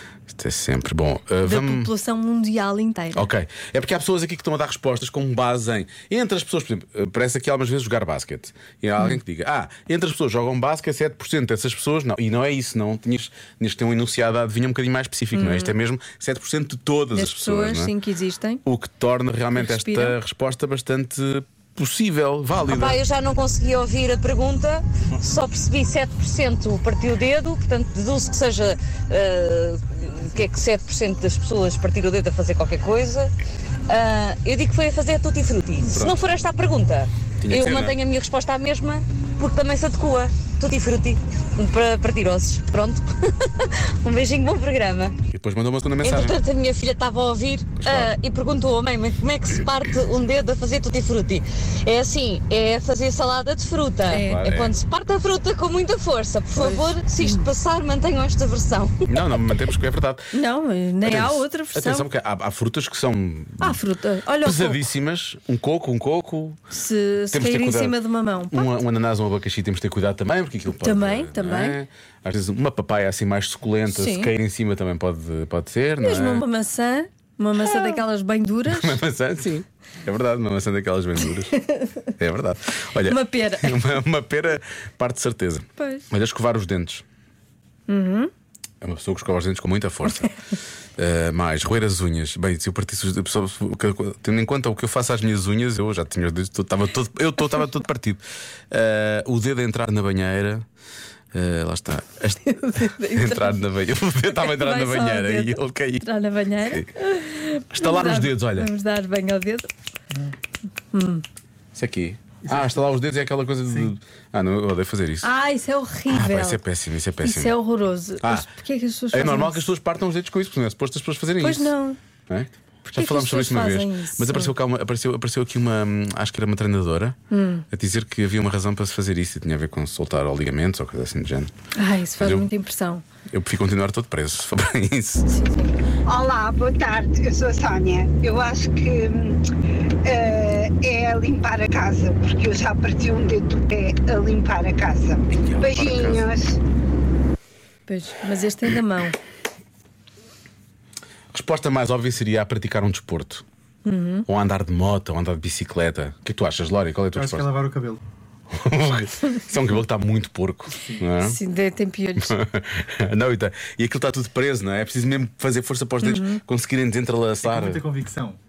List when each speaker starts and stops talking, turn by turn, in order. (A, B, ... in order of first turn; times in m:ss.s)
0:00.3-0:01.9 A
0:01.4-0:03.3 B
0:03.1-0:17.9 A
0:15.3-0:15.7 B
0:17.1-0:18.6 B
0:18.6-0:23.0 A
0:19.6-0:20.2 B
0:22.6-0:33.3 C
0:33.9-0:45.2 C
0:35.9-0:36.2 A
0:37.4-0:38.0 A
0:45.3-0:46.4 A
0:46.0-0:59.0 C
0:47.8-0:48.1 A
0:54.1-0:54.5 B
0:54.1-0:54.7 A
0:56.5-0:57.4 B
0:59.1-1:00.3 A
1:00.3-1:02.1 B
1:01.0-1:03.8 A
1:03.6-1:04.8 B
1:04.4-1:06.6 A
1:06.7-1:08.8 B
1:07.3-1:08.0 A
1:08.5-1:16.4 A
1:10.8-1:11.8 B
1:13.9-1:14.3 B
1:16.0-1:19.0 B
1:18.7-1:21.5 A
1:21.5-1:21.9 B
1:22.2-1:27.0 A
1:23.0-1:23.8 B
1:25.8-1:26.1 B
1:27.9-1:28.3 B
1:28.8-1:30.3 A
1:31.0-1:40.6 A
1:41.3-1:46.1 A
1:42.4-1:43.6 B
1:44.3-1:49.7 B
1:46.6-1:46.9 A
1:47.7-1:48.7 A
1:50.9-1:51.2 B
1:51.7-1:55.3 A
1:52.5-1:52.8 D
1:55.2-1:56.6 B
1:56.1-1:57.6 A
1:57.2-1:59.7 B
1:58.2-1:58.5 A
1:59.1-2:01.7 A
2:01.4-2:02.0 B
2:02.3-2:07.2 A
2:02.8-2:04.5 B
2:07.3-2:07.6 B
2:07.7-2:11.5 A
2:11.8-2:13.0 B
2:12.2-2:12.5 A
2:13.3-2:15.3 A
2:15.3-2:15.7 B
2:16.1-2:19.4 E
2:20.0-2:26.6 E
2:25.3-2:26.3 A
2:27.9-2:29.2 B
2:31.3-2:33.4 A
2:33.8-2:34.2 B
2:34.2-2:37.5 A
2:37.1-2:38.0 D
2:38.5-2:41.4 A
2:40.8-2:41.1 D
2:41.2-2:42.4 B
2:42.2-2:47.9 A
2:46.0-2:46.4 B
2:47.4-2:48.4 D